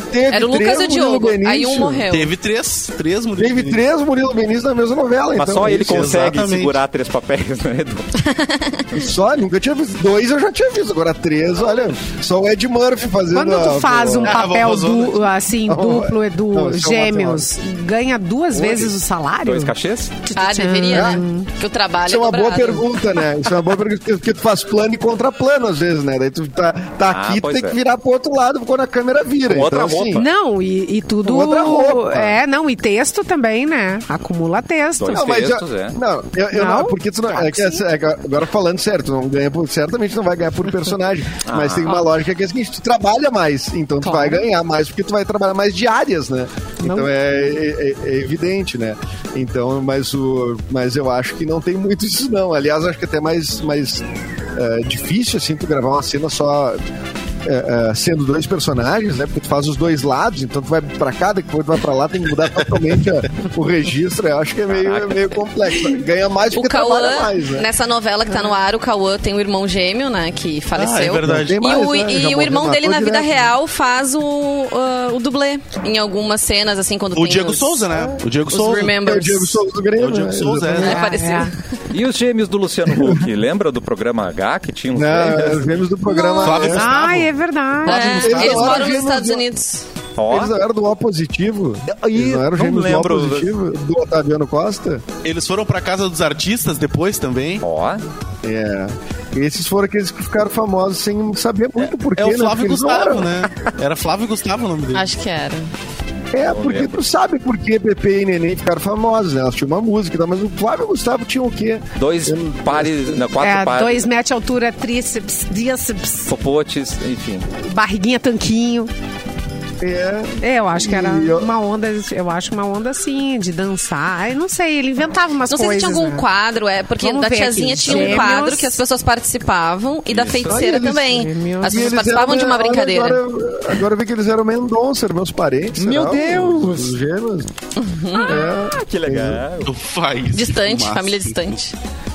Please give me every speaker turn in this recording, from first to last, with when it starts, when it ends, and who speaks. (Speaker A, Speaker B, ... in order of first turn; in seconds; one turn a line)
Speaker A: 0.1-2.0
Speaker B: 0.3-2.3
Speaker C: 2.1-3.8
Speaker A: 3.4-6.2
Speaker D: 5.3-8.2
Speaker C: 5.6-6.8
Speaker B: 8.2-8.9
Speaker A: 8.9-14.4
Speaker E: 13.3-21.5
Speaker C: 14.2-15.3
Speaker A: 15.7-17.5
Speaker D: 19.4-20.1
Speaker B: 20.3-22.9
Speaker A: 20.9-21.2
Speaker A: 22.0-30.2
Speaker D: 27.1-27.8
Speaker D: 29.5-30.3
Speaker E: 30.1-35.3
Speaker A: 31.2-32.4
Speaker D: 35.0-36.0
Speaker A: 35.1-56.8
Speaker E: 36.5-37.8
Speaker D: 41.4-42.0
Speaker E: 44.0-44.4
Speaker E: 46.8-47.3
Speaker A: 57.4-67.7
Speaker D: 64.7-65.3
Speaker B: 66.5-77.9
Speaker C: 70.7-71.6
Speaker A: 71.2-73.4
Speaker C: 77.1-78.9
Speaker A: 78.5-81.0
Speaker B: 78.5-79.6
Speaker C: 80.0-81.0
Speaker B: 80.7-81.6
Speaker E: 80.8-81.5
Speaker D: 81.9-85.7
Speaker A: 82.9-83.2
Speaker A: 84.9-86.9
Speaker E: 86.1-88.6
Speaker C: 86.4-87.3
Speaker B: 87.8-89.8
Speaker A: 87.9-89.4
Speaker C: 87.9-88.8
Speaker D: 90.2-90.5
Speaker A: 90.3-95.0
Speaker D: 91.9-93.5
Speaker C: 95.2-97.6
Speaker D: 97.6-98.0
Speaker A: 98.4-103.5
Speaker C: 101.9-105.1
Speaker B: 104.9-105.7
Speaker A: 106.3-113.2
Speaker D: 106.5-107.0
Speaker D: 112.0-114.0
Speaker E: 113.4-116.3
Speaker D: 116.3-117.4
Speaker E: 117.6-118.9
Speaker A: 119.8-121.5
Speaker E: 120.4-126.2
Speaker B: 125.5-133.2
Speaker E: 127.0-128.8
Speaker D: 130.1-130.6
Speaker A: 130.3-137.5
Speaker E: 131.1-131.9
Speaker D: 135.8-136.9
Speaker B: 137.8-138.4
Speaker A: 138.2-139.4
Speaker D: 138.7-139.7
Speaker C: 139.6-141.5
Speaker B: 140.3-141.8